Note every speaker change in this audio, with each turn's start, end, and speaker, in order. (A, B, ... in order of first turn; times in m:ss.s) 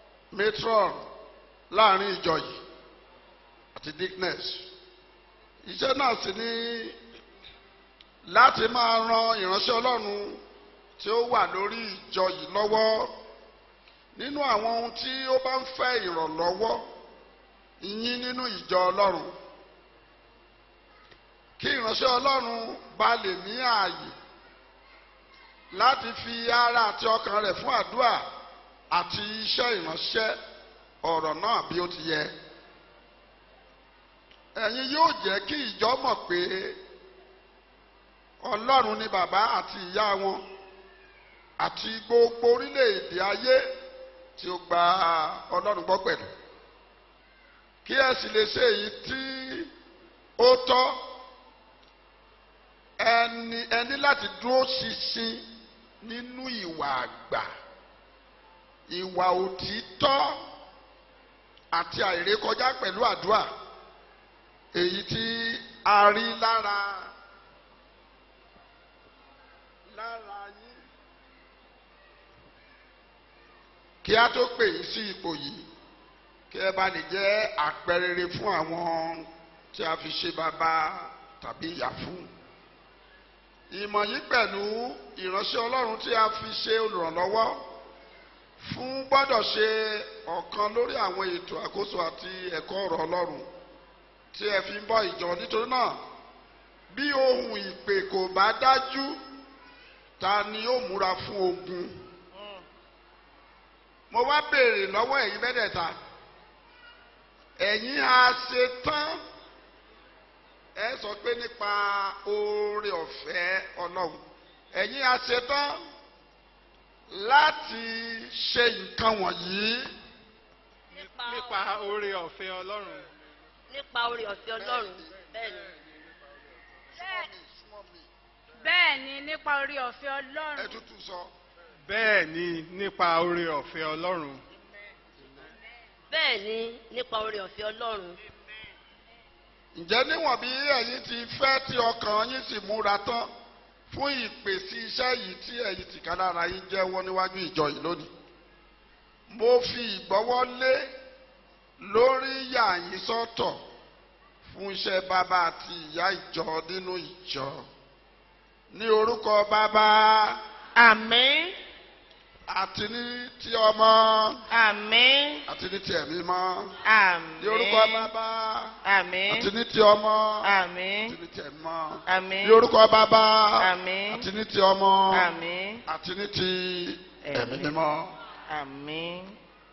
0:00.3-0:01.0 A
0:01.7-0:02.6 A
0:03.8-0:04.6 A
0:05.6-0:07.0 A
0:08.2-0:10.4 A
0:11.0-0:13.1 A
0:14.1-0:16.8 A
0:17.8-0:19.3 A
0:21.6-0:24.1 A
0:25.7-0:28.2 A
0:28.9-0:30.3 A
0:31.0-0:32.3 A
0:34.5-0:36.8 A
0:38.4-0:40.4 A
0:41.6-0:43.6 A
0:44.4-0:46.3 A
0:47.8-0:49.7 A
0:50.4-0:51.0 A
0:53.0-0:55.4 A
0:56.0-0:57.5 A
0:58.9-1:00.4 A
1:01.7-1:03.5 A
1:04.7-1:07.1 A
1:09.9-1:10.8 A
1:14.0-1:15.7 A
1:16.5-1:22.3 A
1:23.7-1:27.6 A
1:28.6-1:33.5 A
1:34.3-1:36.0 A
1:36.9-1:39.2 A
1:40.2-1:41.9 A
1:42.3-1:42.6 B
1:44.1-1:45.9 A
1:47.6-1:49.2 A
1:50.8-1:54.2 A
1:54.7-1:55.8 A
1:57.1-1:59.9 A
2:00.9-2:02.0 C
2:01.0-2:03.1 D
2:03.7-2:05.7 C
2:04.5-2:05.2 A
2:07.0-2:08.1 A
2:08.6-2:10.7 E
2:10.6-2:11.3 A
2:11.8-2:14.4 D
2:16.1-2:18.2 C
2:19.7-2:23.3 A
2:23.9-2:28.1 A
2:29.3-2:30.9 A
2:31.8-2:33.6 A
2:34.4-2:37.6 A
2:38.7-2:40.4 A
2:40.7-2:41.6 B
2:42.5-2:44.4 A
2:44.5-2:45.5 B
2:45.5-2:46.7 A
2:46.8-2:48.1 B
2:47.4-2:48.8 A
2:48.8-2:49.5 B
2:49.3-2:50.5 A
2:50.4-2:51.2 B
2:51.1-2:55.3 A
2:52.0-2:52.6 B
2:53.6-2:54.3 B
2:55.1-2:55.8 B
2:55.9-2:58.1 A
2:57.2-2:57.7 B
2:58.5-2:59.4 B